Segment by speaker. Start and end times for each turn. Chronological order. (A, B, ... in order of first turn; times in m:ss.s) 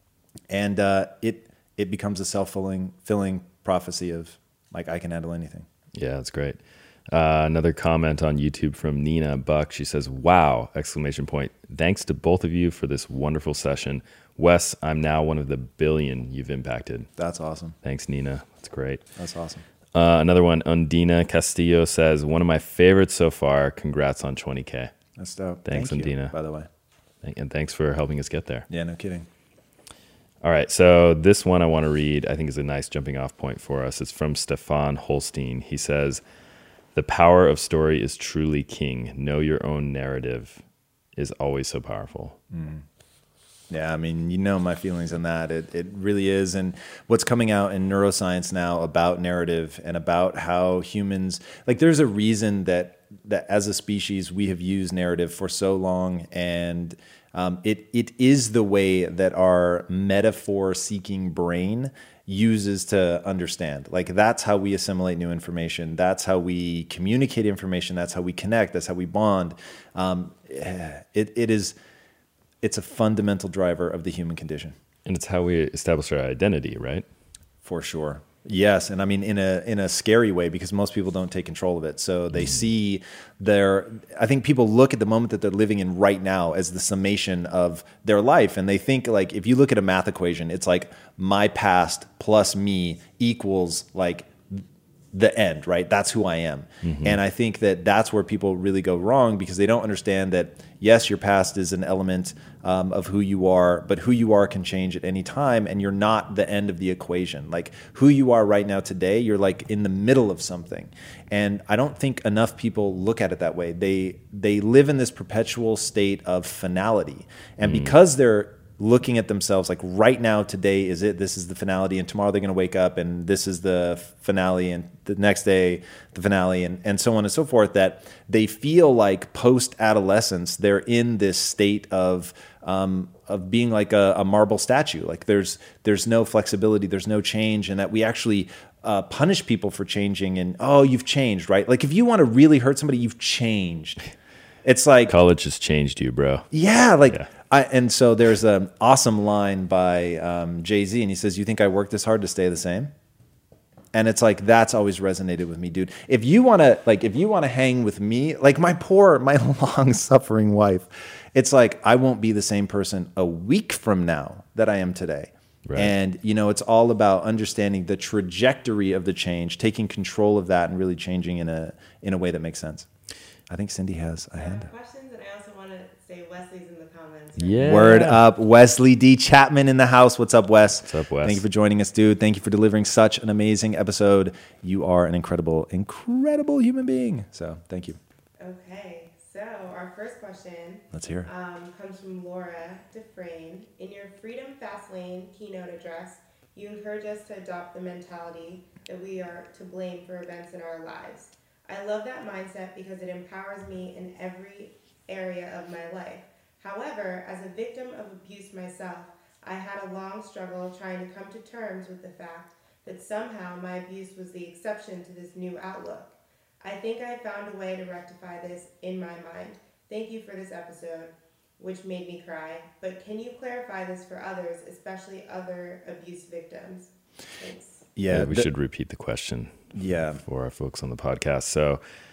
0:00.5-0:05.7 A
0:05.9-0:06.6 B
0:07.1-0:17.1 B
0:17.2-0:17.8 A
0:17.8-0:19.0 B
0:19.2-0:19.6 A
0:20.0-0:24.9 B
0:25.2-0:26.7 A
0:25.7-0:26.4 B
0:27.2-0:28.7 B
0:28.7-0:29.3 A
0:30.4-0:36.2 B
0:37.0-0:40.6 B
0:41.2-0:42.4 B
0:42.5-0:42.8 A
0:43.7-1:11.8 A
1:12.6-1:14.8 A
1:15.1-1:17.1 B
1:17.6-2:24.0 A
1:36.8-1:37.2 B
1:57.6-1:58.0 B
2:24.6-2:25.2 A
2:25.1-2:26.5 B
2:26.5-2:32.9 A
2:33.9-2:52.9 A
2:45.7-2:45.9 B
2:53.5-2:54.7 A
2:54.4-2:58.0 C
2:57.4-2:58.2 B
2:57.6-3:08.0 A
3:00.8-3:01.4 B
3:08.4-3:47.9 C
3:10.9-3:11.3 A
3:48.0-3:48.5 A
3:48.1-3:51.8 B
3:49.7-3:50.2 A